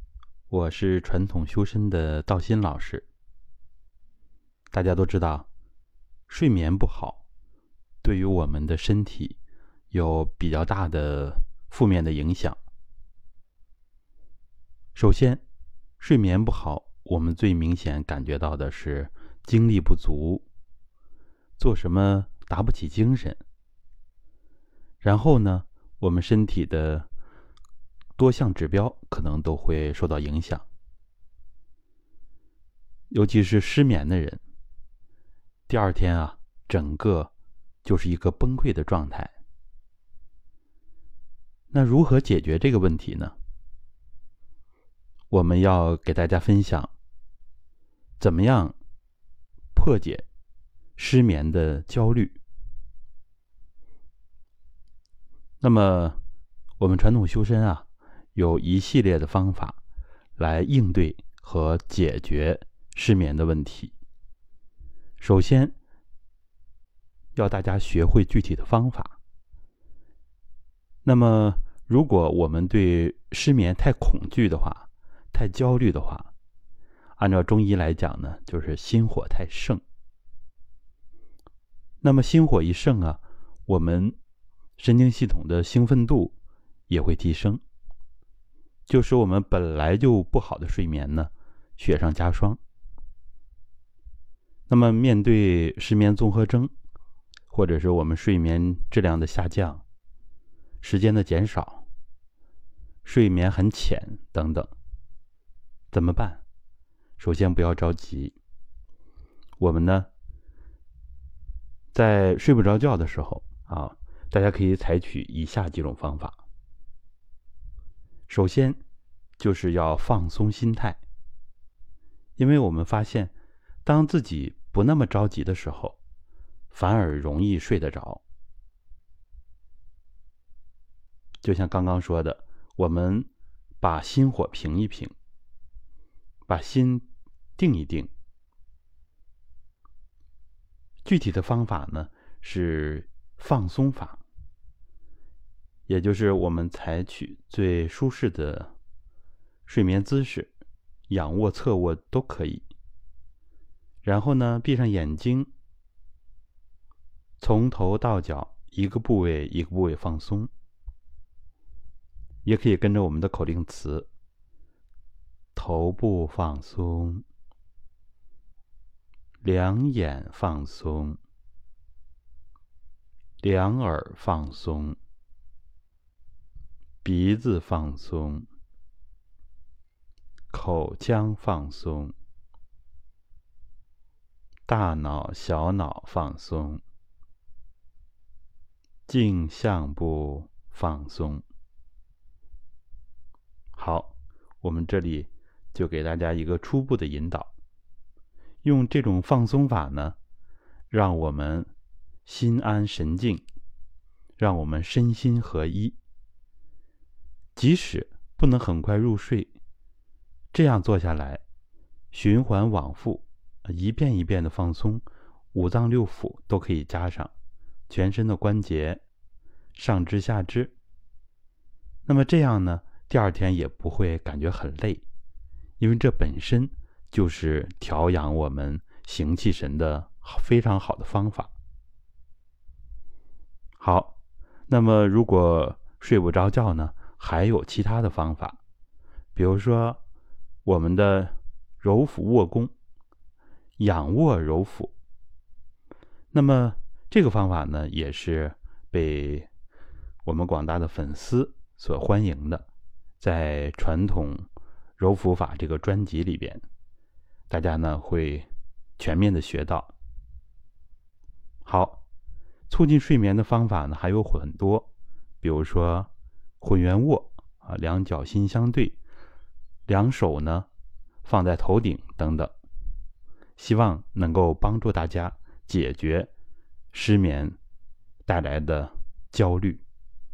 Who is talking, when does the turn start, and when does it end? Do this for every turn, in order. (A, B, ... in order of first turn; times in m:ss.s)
0:00.5-0:03.0 A
0:04.7-0:05.5 A
0:06.3-0:07.2 A
0:08.0-0:09.4 A
0:09.9-0:12.6 A
0:14.9-0:15.4 A
0:16.0-0:20.4 A
0:21.6-0:23.4 A
0:25.0-0:27.1 A
0:28.2-0:30.6 A
0:33.1-0:34.4 A
0:35.7-0:37.3 A
0:37.8-0:39.3 A
0:41.7-0:43.3 A
0:45.3-0:46.9 A
0:48.2-0:48.7 A
0:49.7-0:50.2 A
0:51.0-0:52.4 A
0:55.6-0:56.2 A
0:56.8-0:59.8 A
1:00.4-1:03.9 A
1:05.2-1:05.7 A
1:07.4-1:09.2 A
1:11.0-1:16.3 A
1:17.2-1:19.8 A
1:22.0-1:24.2 A
1:24.8-1:26.3 A
1:26.9-1:27.6 A
1:28.9-1:32.6 A
1:34.7-1:36.7 A
1:37.5-1:39.8 A
1:40.8-1:41.8 A
1:43.0-1:44.7 A
1:45.9-1:46.4 A
1:47.2-1:48.4 A
1:49.6-1:50.1 A
1:51.9-1:56.4 A
1:58.3-1:58.8 A
1:59.4-2:01.0 A
2:02.4-2:03.3 A
2:03.8-2:06.0 A
2:06.7-2:08.2 A
2:11.4-2:13.3 A
2:13.8-2:15.1 A
2:16.5-2:17.0 A
2:17.6-2:18.1 A
2:21.0-2:24.2 A
2:25.9-2:28.7 A
2:29.7-2:30.5 A
2:31.1-2:32.6 A
2:34.0-2:35.5 A
2:37.4-2:40.5 A
2:42.4-2:44.1 A
2:45.5-2:47.2 A
2:49.4-2:51.2 A
2:53.4-2:55.0 A
2:57.0-2:58.5 A
3:00.5-3:02.1 A
3:04.7-3:06.8 A
3:09.1-3:11.4 A
3:13.7-3:17.5 A
3:18.6-3:20.2 A
3:20.9-3:21.7 A
3:22.2-3:23.4 A
3:24.4-3:26.0 A
3:27.6-3:29.5 A
3:30.5-3:31.4 A
3:32.1-3:37.3 A
3:37.9-3:39.0 A
3:39.7-3:40.7 A
3:42.0-3:45.0 A
3:45.8-3:51.5 A
3:53.8-3:54.1 A
3:54.7-3:58.6 A
3:59.3-4:00.0 A
4:00.6-4:02.7 A
4:03.8-4:04.9 A
4:06.3-4:09.5 A
4:10.2-4:12.7 A
4:13.2-4:14.5 A
4:15.0-4:16.6 A
4:17.5-4:19.9 A
4:21.6-4:22.0 A
4:22.7-4:24.9 A
4:25.4-4:26.1 A
4:26.6-4:29.0 A
4:29.9-4:30.7 A
4:31.2-4:32.5 A
4:33.6-4:36.3 A
4:36.9-4:37.6 A
4:38.2-4:39.8 A